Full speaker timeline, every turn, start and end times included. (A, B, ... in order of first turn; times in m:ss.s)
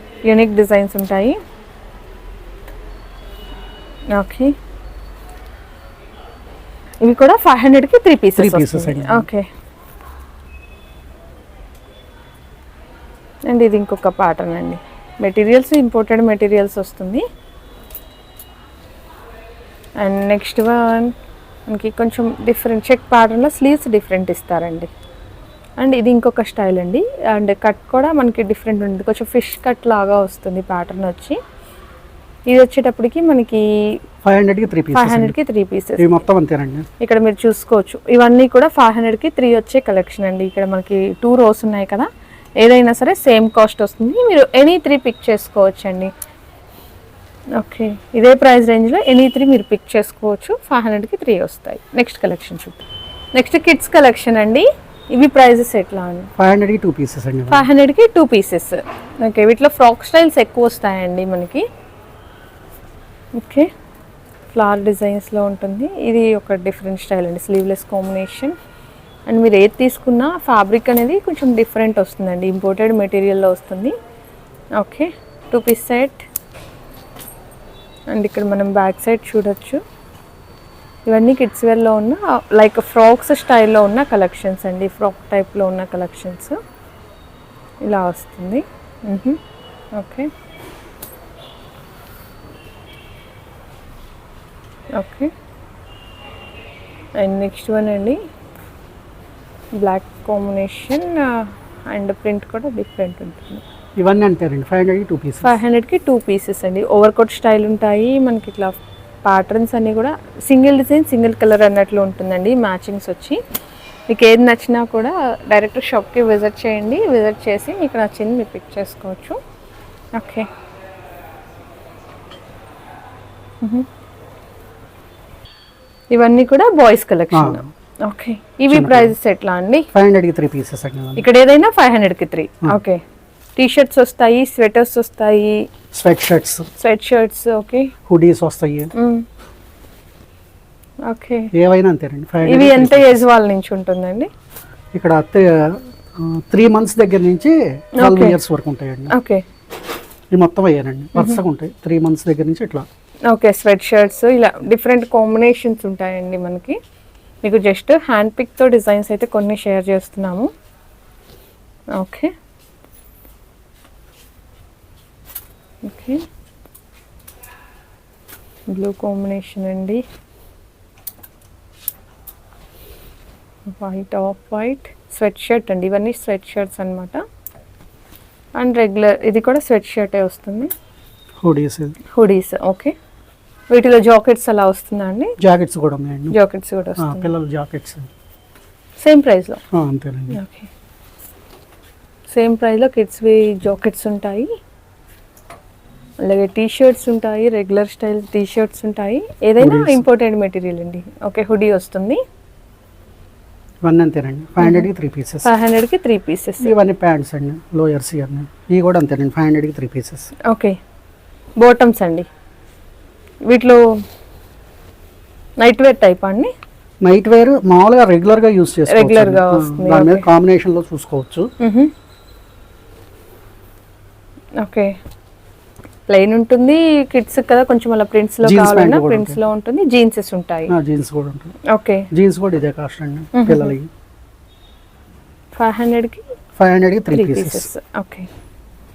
0:00.2-0:01.4 A
0:04.2-0:04.6 A
0:07.0-0:09.5 A
0:08.4-0:09.3 B
0:13.5-0:17.2 A
0:20.0-0:21.1 A
0:21.7-0:24.9 A
0:25.8-0:31.4 A
0:32.5-0:34.0 A
0:34.2-0:35.4 B
0:34.9-0:36.2 A
0:36.0-0:36.9 B
0:37.0-0:42.1 A
0:42.6-0:46.1 A
0:47.6-0:52.8 A
0:53.3-0:56.3 A
0:56.4-0:57.7 B
0:57.5-1:01.7 A
1:03.4-1:03.7 A
1:04.5-1:08.6 A
1:09.3-1:14.0 A
1:14.8-1:16.3 A
1:18.1-1:19.8 A
1:21.1-1:26.6 A
1:27.8-1:29.4 A
1:29.9-1:30.3 A
1:35.0-1:35.3 A
1:37.2-1:38.2 A
1:39.8-1:43.6 A
1:44.0-1:45.6 B
1:45.4-1:53.4 A
1:54.1-1:59.4 A
2:00.2-2:00.5 A
2:06.1-2:09.9 A
2:07.3-2:07.7 B
2:08.7-2:09.2 B
2:09.9-2:11.3 B
2:11.2-2:13.0 A
2:13.6-2:15.7 A
2:15.9-2:16.7 B
2:16.8-2:17.9 A
2:18.1-2:18.9 B
2:19.0-2:19.3 A
2:21.1-2:21.5 A
2:21.5-2:23.2 B
2:22.4-2:24.3 A
2:24.9-2:29.2 B
2:28.0-2:28.4 A
2:29.1-2:29.4 A
2:30.3-2:32.8 B
2:33.3-2:36.8 A
2:37.4-2:40.5 A
2:42.0-2:42.3 A
2:45.8-2:46.2 A
2:48.7-2:50.0 A
2:53.7-2:57.2 A
2:58.6-3:00.7 A
3:01.4-3:02.0 B
3:02.1-3:02.9 A
3:03.7-3:05.4 A
3:05.4-3:06.4 B
3:06.3-3:07.3 A
3:07.0-3:08.1 B
3:09.0-3:09.6 A
3:09.7-3:10.4 B
3:10.3-3:10.7 A
3:12.3-3:14.5 A
3:16.2-3:22.2 A
3:19.6-3:20.0 B
3:23.8-3:25.5 B
3:24.6-3:24.9 A
3:25.4-3:26.7 A
3:26.6-3:30.3 B
3:30.5-3:30.8 A
3:31.6-3:32.3 A
3:33.5-3:33.8 A
3:35.6-3:36.5 A
3:37.0-3:41.5 B
3:38.9-3:40.3 A
3:41.6-3:41.9 A
3:44.6-3:45.0 A
3:46.1-3:50.7 A
3:48.4-3:49.4 B
3:50.7-3:51.6 B
3:51.7-3:52.1 A
3:52.1-3:53.9 B
3:53.3-3:53.7 A
3:55.6-3:56.2 A
3:56.6-3:57.7 B
3:57.1-3:58.3 A